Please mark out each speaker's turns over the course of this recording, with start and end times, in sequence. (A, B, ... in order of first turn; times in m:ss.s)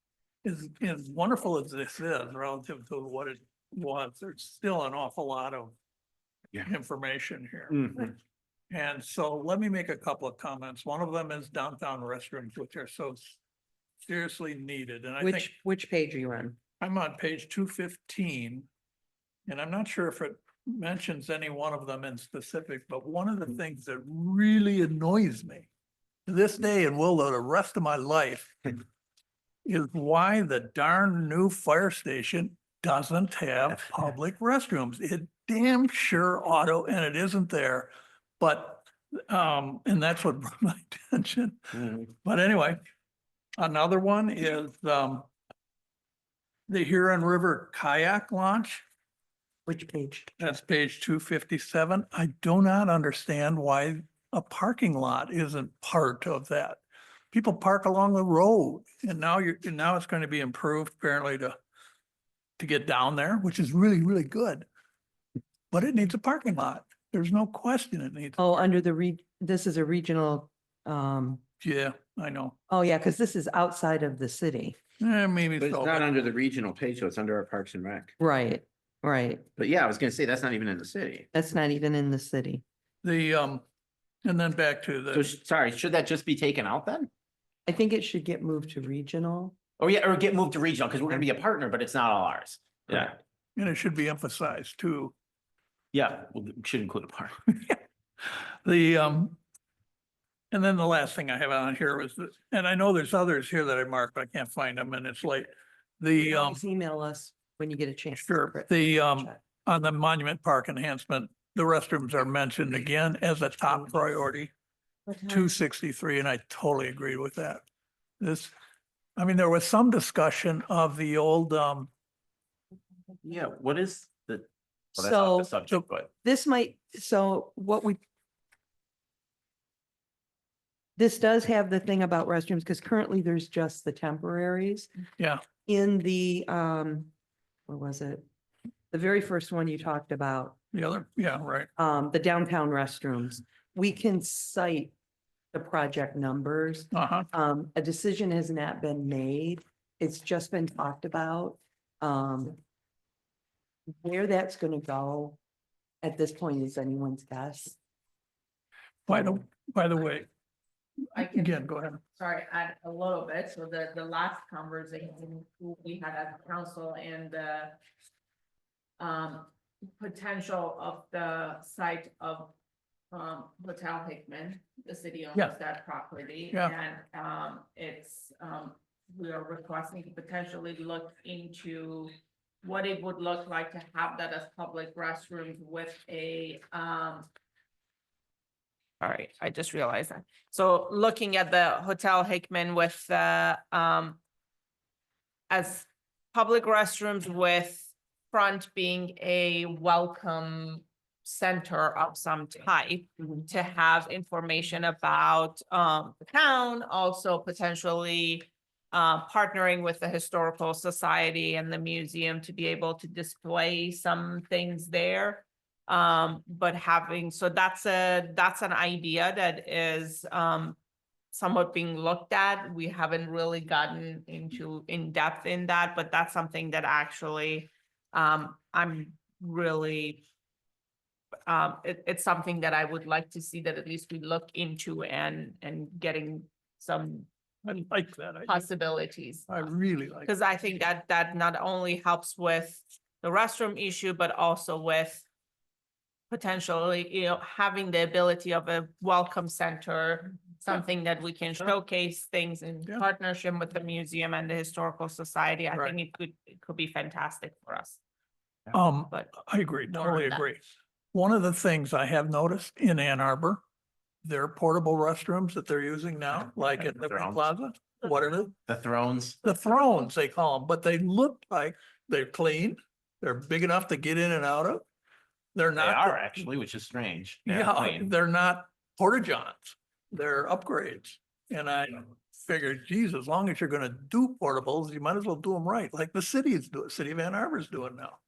0:00.4-0:05.8 A
0:06.6-0:08.1 A
0:08.7-0:13.4 A
0:14.0-0:15.5 A
0:15.2-0:16.6 B
0:16.8-0:18.7 A
0:19.4-0:25.7 A
0:26.3-0:28.8 A
0:29.6-0:42.8 A
0:43.6-0:45.3 A
0:46.7-0:48.8 A
0:49.6-0:50.3 B
0:50.4-1:01.6 A
1:02.6-1:04.6 A
1:05.7-1:08.5 A
1:08.4-1:11.4 B
1:11.6-1:12.6 A
1:12.7-1:14.7 B
1:15.0-1:16.1 A
1:15.6-1:18.1 C
1:18.2-1:19.4 B
1:19.6-1:21.3 C
1:21.3-1:22.6 B
1:23.0-1:23.6 A
1:24.2-1:25.3 A
1:25.1-1:27.1 C
1:27.7-1:29.5 B
1:29.8-1:33.2 C
1:33.6-1:35.1 A
1:35.9-1:37.4 C
1:37.6-1:39.4 A
1:40.5-1:46.6 A
1:46.2-1:49.4 B
1:48.3-1:54.5 A
1:55.0-1:55.5 B
1:55.3-1:57.6 A
1:58.2-1:58.5 A
1:59.2-2:01.9 A
2:03.2-2:06.1 C
2:05.0-2:05.5 B
2:06.2-2:08.0 B
2:11.0-2:14.9 B
2:15.2-2:15.5 A
2:15.5-2:17.1 B
2:17.7-2:18.2 B
2:18.9-2:20.6 B
2:20.7-2:21.7 A
2:21.8-2:24.9 B
2:25.5-2:32.6 B
2:26.9-2:27.2 A
2:33.9-2:35.4 B
2:36.0-2:37.8 B
2:39.0-2:40.3 A
2:41.1-2:42.0 A
2:41.2-2:41.6 D
2:42.1-2:47.8 D
2:49.0-2:52.5 D
2:53.1-3:07.3 D
3:09.0-3:14.2 D
3:15.5-3:40.8 D
3:41.3-3:50.2 D
3:51.4-3:57.3 D
3:57.6-3:58.6 A
3:58.4-3:59.5 D
3:59.5-4:00.3 A
4:00.2-4:05.2 D
4:06.3-4:18.0 D
4:18.7-4:23.6 A
4:19.1-4:19.3 D
4:19.9-4:20.4 D
4:24.2-4:28.5 A
4:26.9-4:27.4 C
4:28.6-4:29.4 C
4:29.4-4:34.8 A
4:35.5-4:36.4 A
4:35.8-4:38.1 C
4:37.5-4:48.2 A